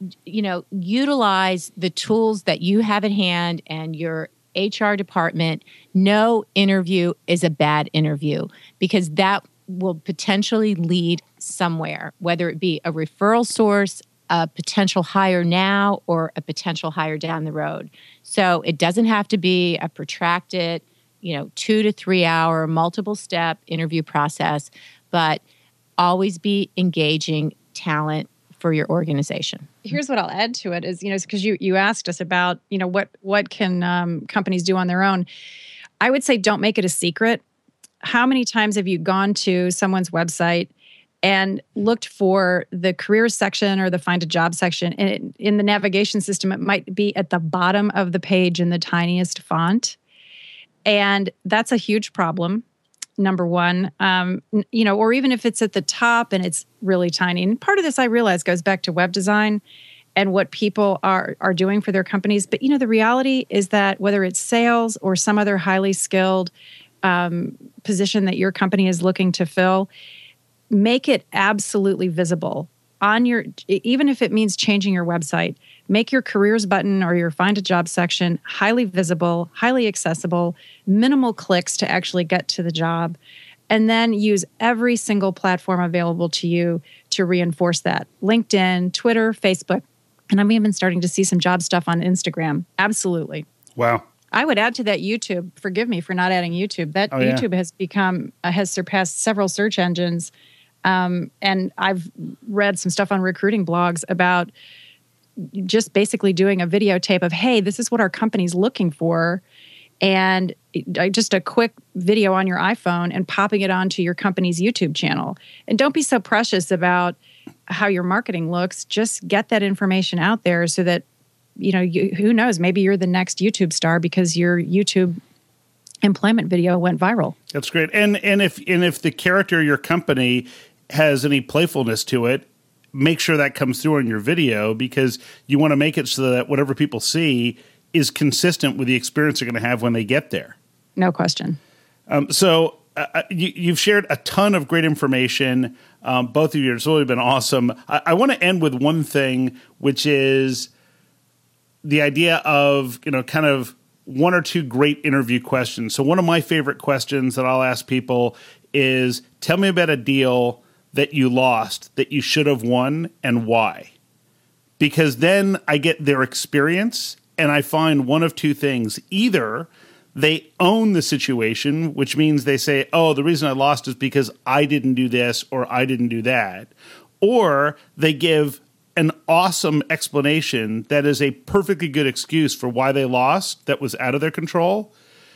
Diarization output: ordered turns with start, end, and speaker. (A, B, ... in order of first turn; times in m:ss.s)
0:00.2-0:25.4 A
0:26.0-0:29.7 A
0:29.8-0:35.2 B
0:36.0-0:37.4 B
0:38.0-0:40.7 B
0:41.2-0:50.0 B
0:50.9-0:52.6 B
0:53.2-0:59.6 B
1:00.2-1:06.5 B
1:07.0-1:09.9 B
1:10.7-1:23.2 B
1:23.7-1:33.4 B
1:33.8-1:34.0 C
1:34.3-1:40.3 B
1:37.1-1:37.4 C
1:40.8-1:44.5 B
1:45.4-1:49.4 B
1:50.0-2:01.0 B
2:01.6-2:05.2 B
2:06.0-2:07.4 B
2:07.5-2:20.5 C
2:21.0-2:21.6 B
2:22.1-2:30.7 C
2:31.8-2:43.9 C
2:44.8-3:04.9 C